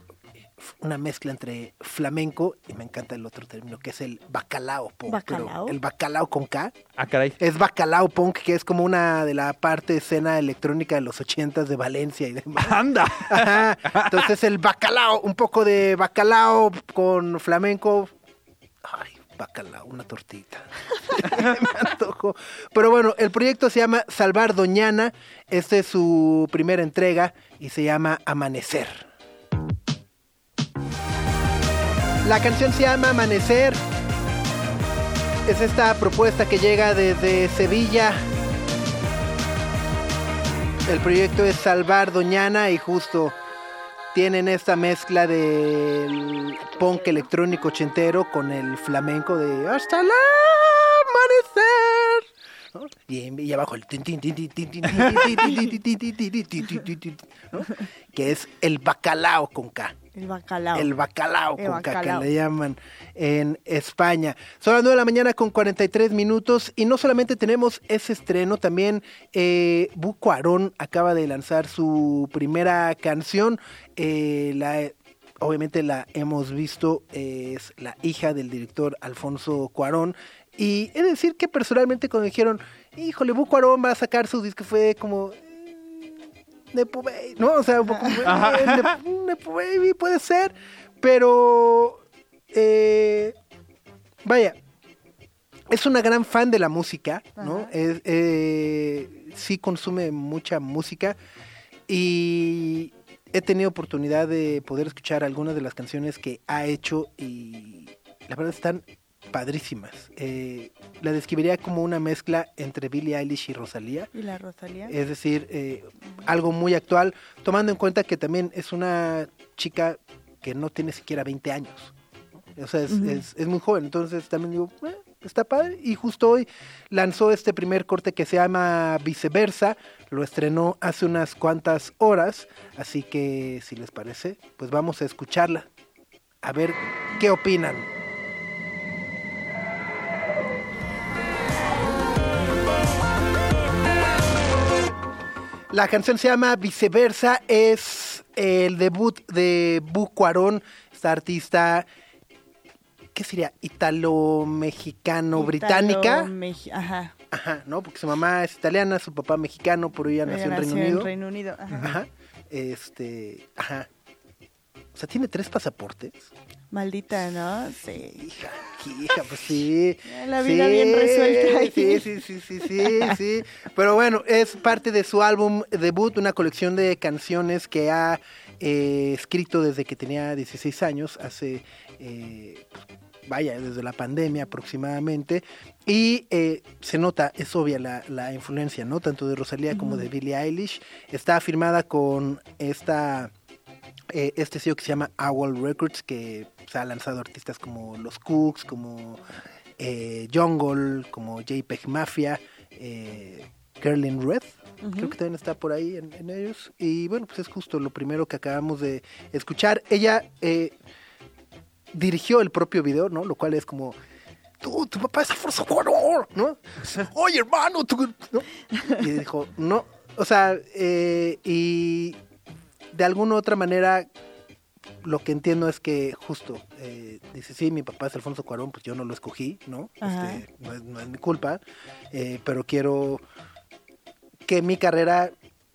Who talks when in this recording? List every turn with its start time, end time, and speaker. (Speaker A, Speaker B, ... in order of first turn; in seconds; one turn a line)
Speaker A: 0.6-6.7
Speaker B: 5.1-5.8
Speaker C: 7.0-7.4
Speaker A: 7.4-18.1
Speaker C: 12.6-14.2
Speaker A: 18.8-29.1
Speaker A: 32.2-33.8
Speaker A: 35.4-38.2
Speaker A: 40.9-43.4
Speaker A: 44.1-60.0
Speaker B: 60.1-60.9
Speaker A: 60.7-93.3
Speaker B: 61.5-62.3
Speaker B: 87.9-88.2
Speaker C: 88.2-89.0
Speaker A: 94.2-94.6
Speaker A: 95.7-101.2
Speaker B: 97.4-97.7
Speaker A: 101.9-114.1
Speaker B: 114.1-114.9
Speaker A: 114.9-121.9
Speaker A: 122.5-135.7
Speaker B: 122.9-123.2
Speaker A: 136.4-137.9
Speaker A: 145.7-151.9
Speaker A: 153.1-156.3
Speaker B: 155.3-157.1
Speaker A: 157.3-161.1
Speaker B: 160.2-161.9
Speaker A: 161.8-163.9
Speaker A: 164.9-166.3
Speaker B: 166.7-168.3
Speaker A: 168.2-193.3
Speaker B: 170.0-172.2
Speaker B: 172.8-173.1
Speaker B: 189.7-190.1
Speaker A: 194.1-199.2
Speaker A: 199.8-210.7
Speaker B: 204.8-205.2
Speaker A: 211.9-214.0
Speaker A: 214.6-222.2
Speaker A: 222.9-224.1
Speaker A: 225.0-233.2
Speaker B: 230.0-230.4
Speaker A: 234.4-235.3